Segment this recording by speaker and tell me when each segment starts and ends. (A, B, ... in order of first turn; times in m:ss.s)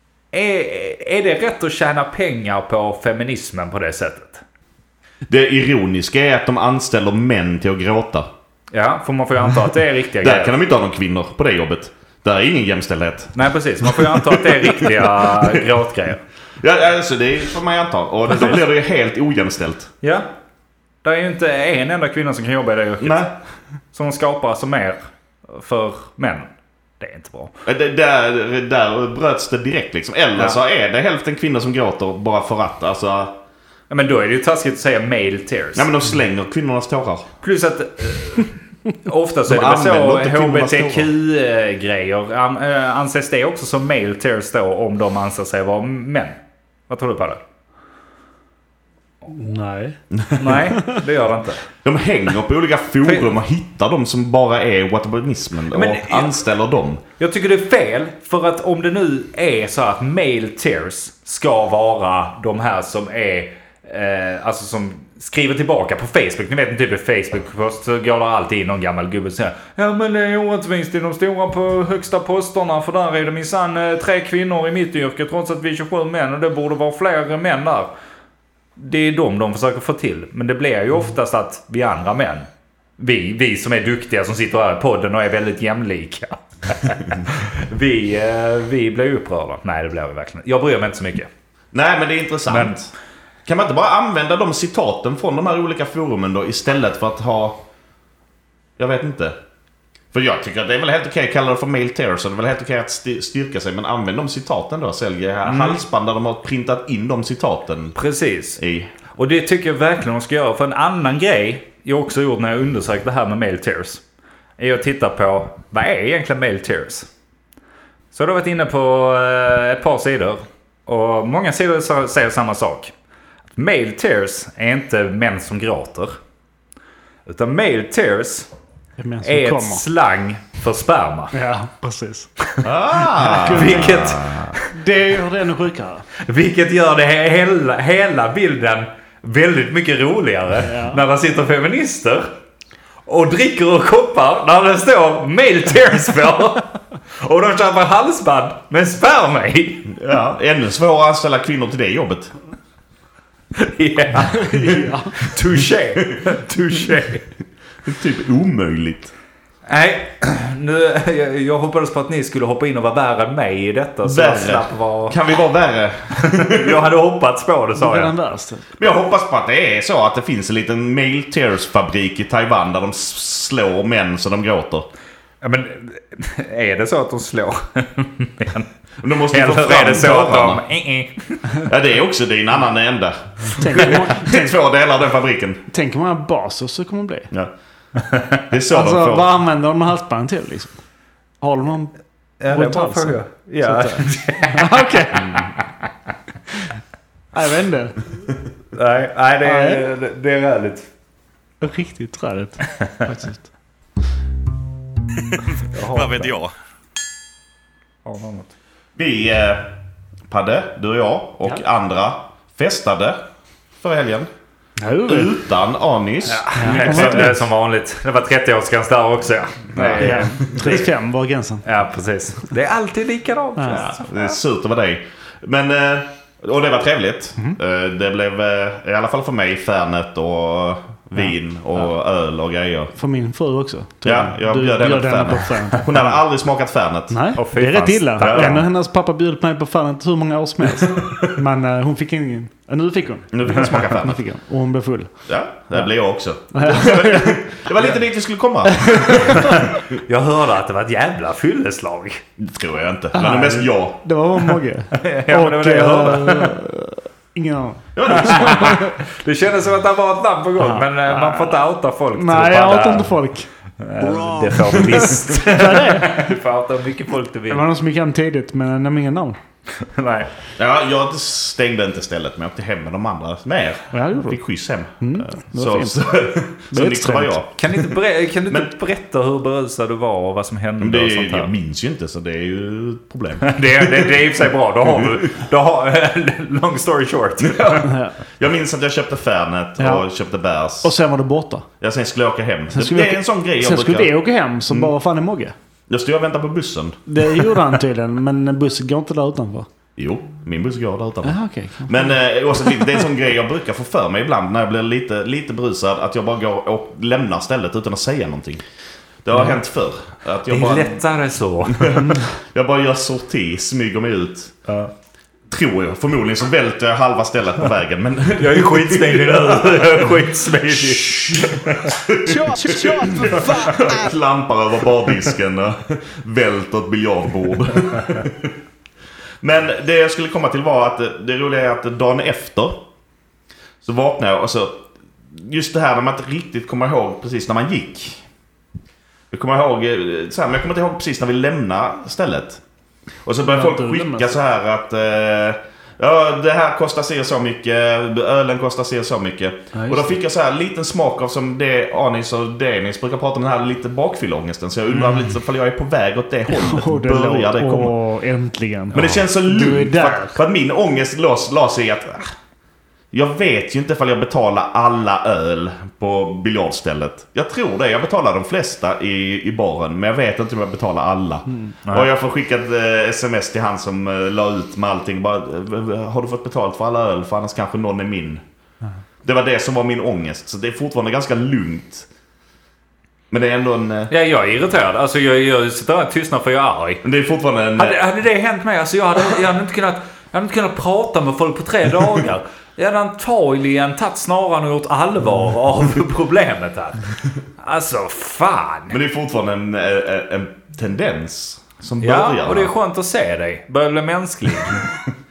0:00.3-0:04.4 A
0:05.3-0:08.3 B
0:08.7-0:10.6 A
0:10.2-0:15.6 B
0:13.4-0:16.2 A
0:16.6-0:19.9 B
0:20.0-0:20.3 A
0:21.0-0:23.3 A
0:23.0-0:23.3 B
0:23.9-0:27.5 A
0:27.6-0:33.4 B
0:33.9-0:35.9 A
0:35.8-0:37.3 B
0:37.4-0:46.4 A
0:39.5-0:41.1 B
0:46.9-0:47.4 A
0:49.3-0:50.0 C
0:50.1-0:50.7 B
0:50.4-0:51.6 A
0:51.8-0:57.0 B
0:53.0-0:53.3 A
0:55.7-0:56.4 A
0:57.2-1:17.9 A
1:18.8-1:22.5 A
1:23.0-1:31.3 A
1:31.7-1:32.9 B
1:32.5-1:32.8 A
1:33.5-1:37.6 B
1:38.8-1:39.4 B
1:40.1-1:48.0 B
1:45.4-1:45.8 A
1:48.0-1:48.6 A
1:48.6-1:48.9 B
1:49.1-1:54.0 A
1:54.6-1:57.1 A
1:58.1-2:02.9 A
2:03.6-2:06.2 A
2:07.3-2:08.5 A
2:09.0-2:09.8 C
2:09.2-2:11.3 A
2:11.3-2:12.4 C
2:12.6-2:14.5 B
2:13.2-2:14.1 C
2:13.3-2:14.7 A
2:14.7-2:16.1 C
2:16.2-2:22.3 A
2:20.6-2:21.0 C
2:23.1-2:30.0 A
2:29.9-2:32.3 B
2:33.6-2:37.2 A
2:34.3-2:35.2 C
2:37.8-2:39.1 B
2:39.7-2:45.2 A
2:44.0-2:46.8 B
2:46.2-2:48.1 A
2:47.8-2:48.7 C
2:48.8-2:54.9 B
2:55.4-2:58.7 A
2:59.0-3:00.6 B
2:59.3-3:01.6 A
3:01.7-3:05.6 B
3:03.6-3:04.6 C
3:05.7-3:07.3 C
3:08.0-3:08.4 A
3:08.5-3:09.3 B
3:08.7-3:10.8 C
3:11.4-3:11.9 C
3:12.4-3:15.7 A
3:12.5-3:15.5 C
3:17.3-3:18.1 C
3:18.7-3:20.9 A
3:19.4-3:19.8 C
3:21.6-3:23.5 C
3:25.3-3:26.5 B
3:25.7-3:26.3 A
3:28.0-3:28.5 A
3:29.0-3:29.7 B
3:30.3-3:33.2 B
3:33.8-3:34.3 B
3:34.8-3:35.3 C
3:35.0-3:37.3 B
3:36.2-3:40.8 A
3:36.6-3:37.4 C
3:39.8-3:40.7 B
3:40.0-3:41.6 C
3:41.6-3:44.1 A
3:43.6-3:43.9 C
3:43.7-3:52.9 B
3:53.0-3:56.0 C
3:54.0-3:57.2 B
3:57.1-4:05.2 C
3:57.4-3:58.6 A
3:58.2-3:58.7 B
4:00.9-4:01.3 B
4:03.3-4:04.2 B
4:05.3-4:09.7 B
4:06.5-4:07.6 C
4:08.7-4:09.6 C
4:09.4-4:12.2 A
4:12.4-4:14.0 B
4:13.1-4:18.9 C
4:14.9-4:16.6 A
4:18.0-4:18.8 B
4:18.1-4:23.2 A
4:20.6-4:21.6 C
4:22.2-4:23.5 C
4:23.8-4:27.6 A
4:25.0-4:26.3 C
4:27.5-4:29.4 C
4:29.8-4:30.3 A
4:30.6-4:37.9 B
4:33.9-4:34.4 C
4:35.0-4:37.4 C
4:37.6-4:41.5 A
4:40.8-4:44.3 B
4:43.4-4:47.9 A
4:44.9-4:45.2 B
4:47.4-4:50.9 B
4:47.8-4:48.2 C
4:49.8-4:50.0 C
4:50.8-4:51.7 C
4:51.8-4:54.1 B
4:52.7-4:55.6 C
4:55.9-4:57.6 B
4:57.1-4:59.7 C
5:00.0-5:08.6 B
5:01.2-5:02.2 C
5:09.2-5:11.0 B
5:10.5-5:12.0 A
5:11.7-5:14.6 B
5:12.0-5:12.2 C
5:15.5-5:20.2 B
5:18.4-5:22.0 A
5:20.7-5:28.5 B
5:29.4-5:32.8 B
5:33.8-5:38.2 B
5:39.3-5:42.6 B
5:43.2-5:58.0 B
5:43.4-5:44.4 C
5:49.7-5:50.1 C
5:56.5-6:00.4 C
5:58.9-6:02.3 B
6:03.1-6:18.4 B
6:19.2-6:22.1 B
6:23.3-6:24.1 B
6:24.1-6:27.0 A
6:27.0-6:28.0 B
6:27.8-6:39.0 A
6:38.9-6:42.7 B
6:42.0-6:44.8 A